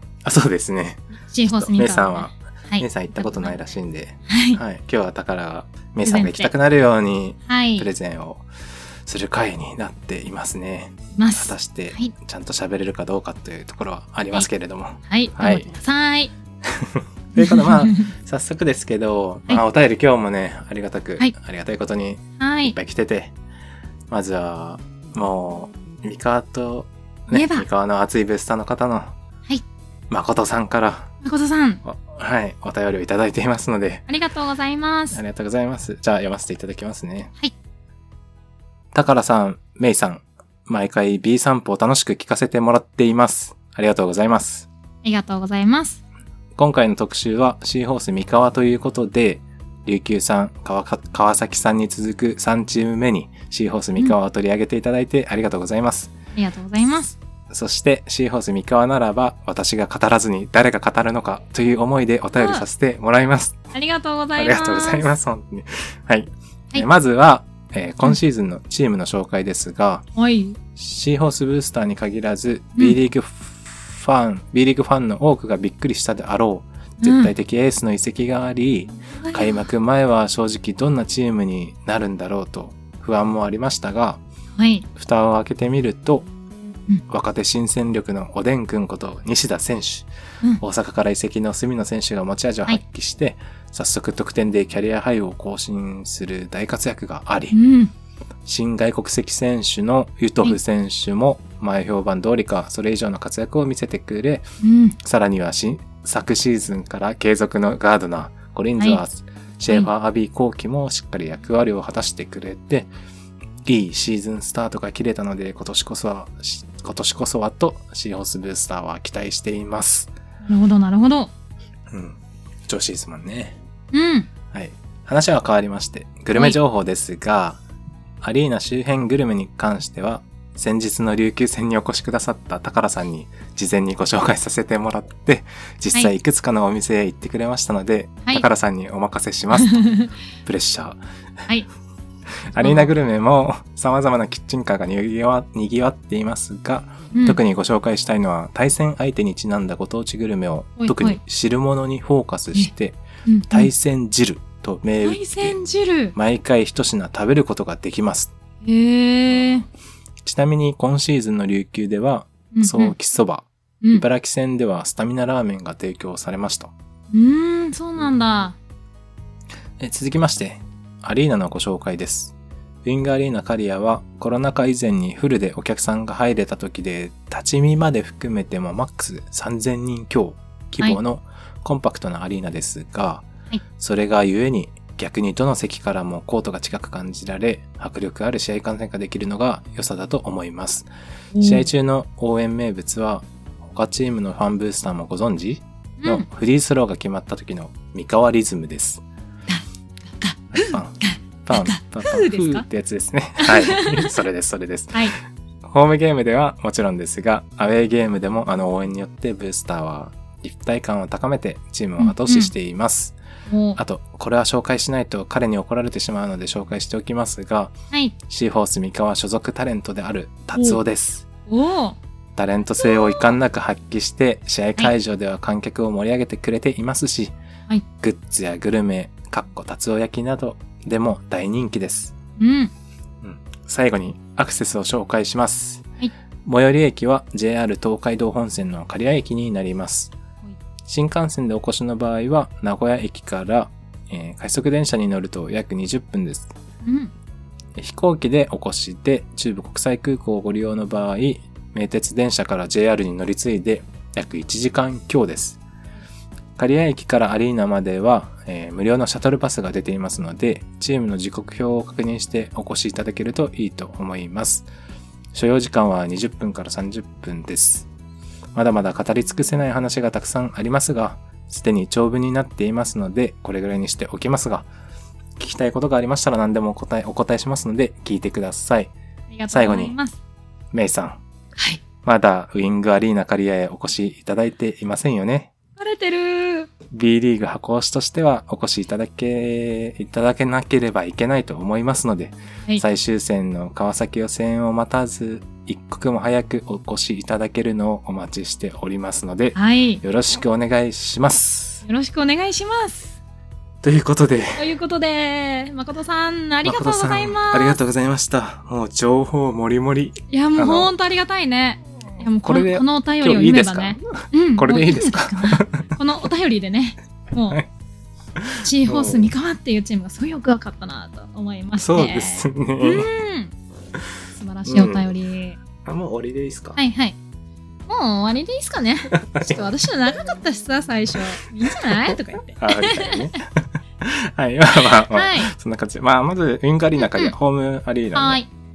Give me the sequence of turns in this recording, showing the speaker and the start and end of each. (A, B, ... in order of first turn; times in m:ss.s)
0:00.2-0:08.4 A
0:01.2-0:03.8 B
0:04.3-0:04.6 B
0:06.0-0:06.5 B
0:07.4-0:07.9 B
0:09.0-0:15.7 A
0:11.2-0:12.1 B
0:15.1-0:16.3 B
0:16.6-0:23.3 A
0:17.3-0:18.1 B
0:22.4-0:22.8 B
0:24.1-0:29.1 A
0:27.3-0:27.6 B
0:30.1-0:31.1 A
0:31.2-0:31.8 B
0:31.8-0:34.1 A
0:34.1-0:35.2 B
0:35.1-0:37.3 A
0:38.9-0:44.7 A
0:45.0-0:46.0 B
0:46.6-0:56.1 A
0:56.3-0:57.2 B
0:57.5-1:03.6 A
1:02.4-1:02.6 B
1:03.7-1:05.1 B
1:04.4-1:10.0 A
1:10.2-1:10.6 B
1:10.8-1:24.2 A
1:17.0-1:17.3 B
1:19.0-1:19.7 B
1:24.6-1:24.8 B
1:25.0-1:26.3 A
1:27.1-1:30.1 A
1:30.6-1:37.6 A
1:37.5-1:37.9 B
1:38.4-1:44.4 A
1:44.6-1:45.0 B
1:45.0-1:52.9 A
1:53.6-2:00.1 A
2:00.4-2:01.3 B
2:01.9-2:03.6 A
2:03.9-2:04.3 B
2:04.5-2:07.6 A
2:08.2-2:19.9 A
2:19.5-2:20.1 B
2:20.4-2:21.0 A
2:22.5-2:35.6 A
2:22.6-2:22.9 B
2:27.1-2:27.4 B
2:30.8-2:31.2 B
2:33.2-2:33.7 B
2:35.0-2:36.1 B
2:36.1-2:38.3 A
2:38.6-2:39.6 B
2:40.2-2:46.7 A
2:42.5-2:42.9 B
2:47.1-2:48.6 B
2:49.8-3:03.2 A
3:03.8-3:10.9 A
3:11.3-3:11.6 B
3:11.4-3:19.0 A
3:16.0-3:16.2 B
3:19.5-3:22.7 B
3:20.5-3:25.1 A
3:23.4-3:24.2 B
3:25.6-3:33.2 A
3:32.0-3:32.5 B
3:33.5-3:33.8 B
3:33.8-3:37.7 A
3:38.3-3:41.2 A
3:41.5-3:42.0 B
3:42.4-3:47.3 A
3:42.8-3:43.3 B
3:48.0-3:52.1 A
3:52.4-3:52.7 B
3:53.2-3:55.8 A
3:56.4-4:00.1 A
4:00.9-4:06.5 A
4:06.8-4:07.1 B
4:07.8-4:15.6 A
4:16.6-4:24.7 A
4:25.3-4:27.9 A
4:28.5-4:34.7 A
4:35.4-4:38.9 A
4:39.3-4:40.2 B
4:39.5-4:40.0 A
4:40.7-4:41.2 A
4:41.6-4:41.8 B
4:42.0-4:45.5 A
4:45.8-4:46.7 B
4:46.9-5:01.8 A
4:59.5-5:00.0 B
5:01.8-5:03.2 B
5:03.8-5:04.7 A
5:04.6-5:07.8 B
5:06.6-5:10.9 A
5:10.3-5:17.6 B
5:12.4-5:15.9 A
5:18.4-5:19.3 A
5:18.6-5:23.5 B
5:21.8-5:23.1 A
5:24.3-5:25.6 B
5:24.6-5:25.1 A
5:25.8-5:26.8 A
5:26.8-5:27.2 B
5:27.9-5:33.4 B
5:29.1-5:29.6 A
5:31.7-5:38.4 A
5:34.8-5:35.5 B
5:37.0-5:37.3 B
5:38.1-5:38.5 B